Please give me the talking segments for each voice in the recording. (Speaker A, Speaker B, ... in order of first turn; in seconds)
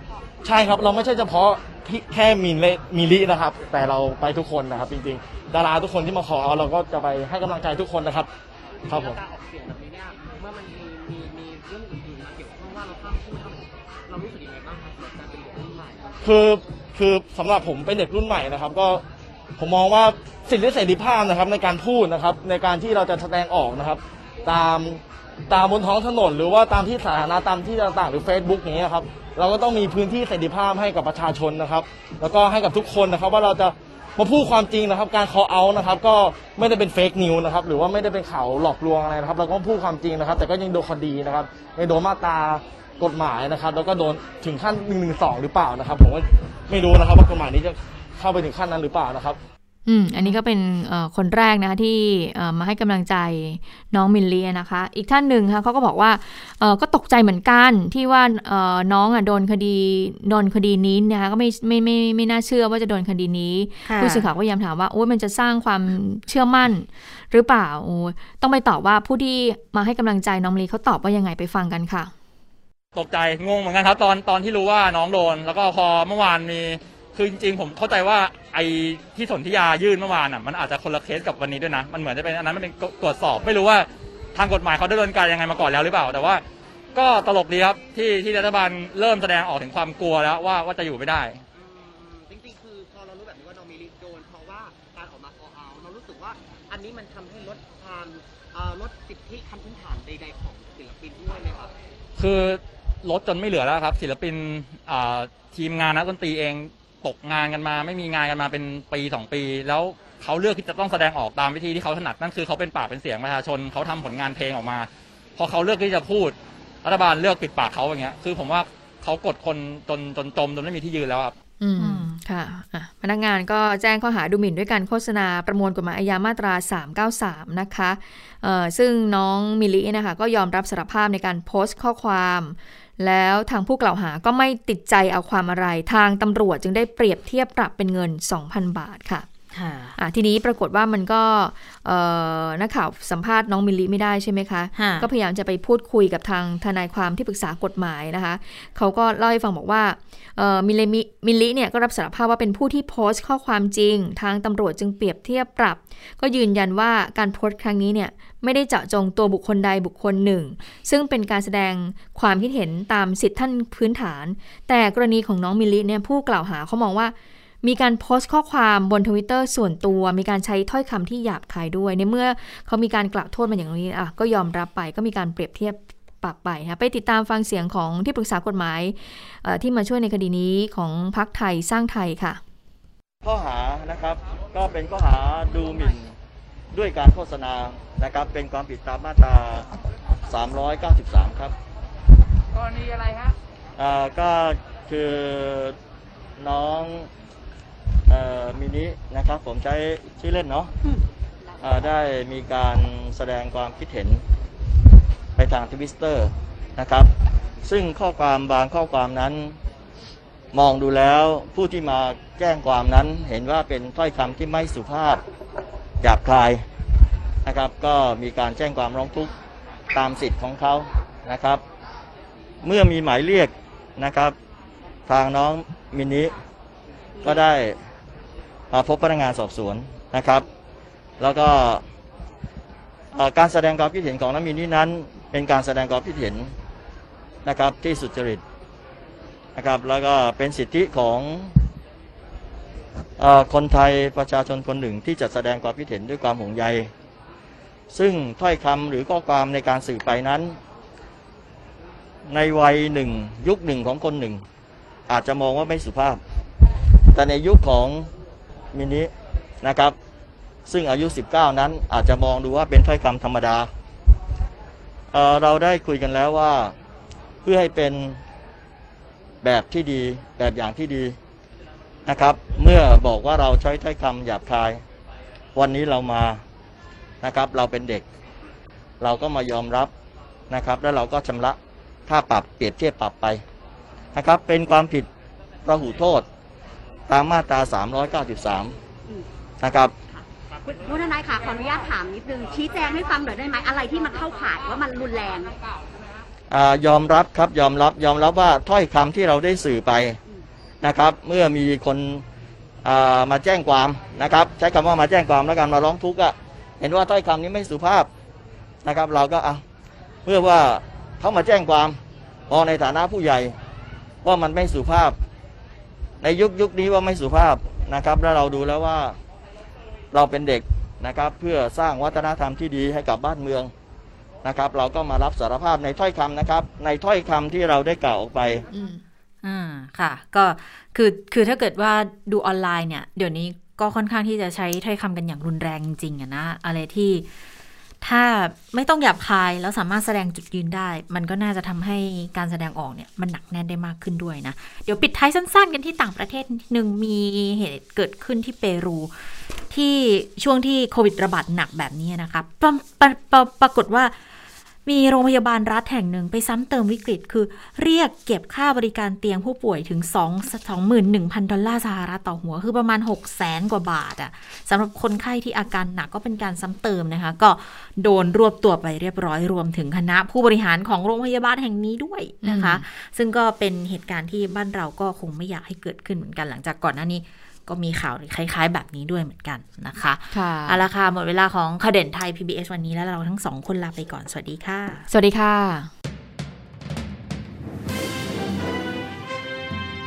Speaker A: 0.4-8.3, 8.9-9.2, 16.2-19.0, 19.6-49.4
Speaker B: 8.7-16.1, 91.5-101.7
Speaker C: 49.9-72.1, 121.6-139.3, 140.0-182.4, 328.7-329.0, 372.4-372.8, 380.3-380.8, 385.1-385.9
Speaker D: 63.8-64.2, 121.8-122.1, 139.5-139.9, 144.7-145.1, 329.4-337.3, 338.0-349.1, 349.7-354.1, 354.9-385.1
Speaker E: 72.9-86.4, 86.9-91.4, 102.2-121.3
Speaker F: 183.2-186.1, 186.7-189.7, 190.3-191.5, 193.8-195.7, 196.4-197.1, 198.1-200.7, 201.6-204.2, 205.3-207.1, 207.6-209.5, 210.5-215.2, 216.0-216.6, 217.4-219.3, 219.9-221.6, 222.6-224.3, 225.1-226.3, 227.2-227.8, 228.7-230.4, 231.2-231.8, 233.1-236.5, 237.4-238.4, 239.6-241.6, 243.2-246.9, 247.9-250.6, 252.3-254.4, 255.1-256.2, 257.1-258.1, 258.7-259.1, 259.6-259.9, 260.6-263.7, 265.1-266.7, 267.4-268.2, 269.4-271.1, 272.1-274.8, 275.5-276.4, 277.2-278.0, 279.0-279.9, 280.5-283.4, 284.1-285.1, 285.6-286.2, 287.1-288.7, 289.6-289.9, 296.5-300.2, 300.8-302.2, 302.8-308.1, 308.8-309.6, 310.2-312.0, 312.5-313.5, 314.2-315.1, 316.2-319.1, 320.1-323.7, 324.4-328.6
Speaker G: 290.6-295.6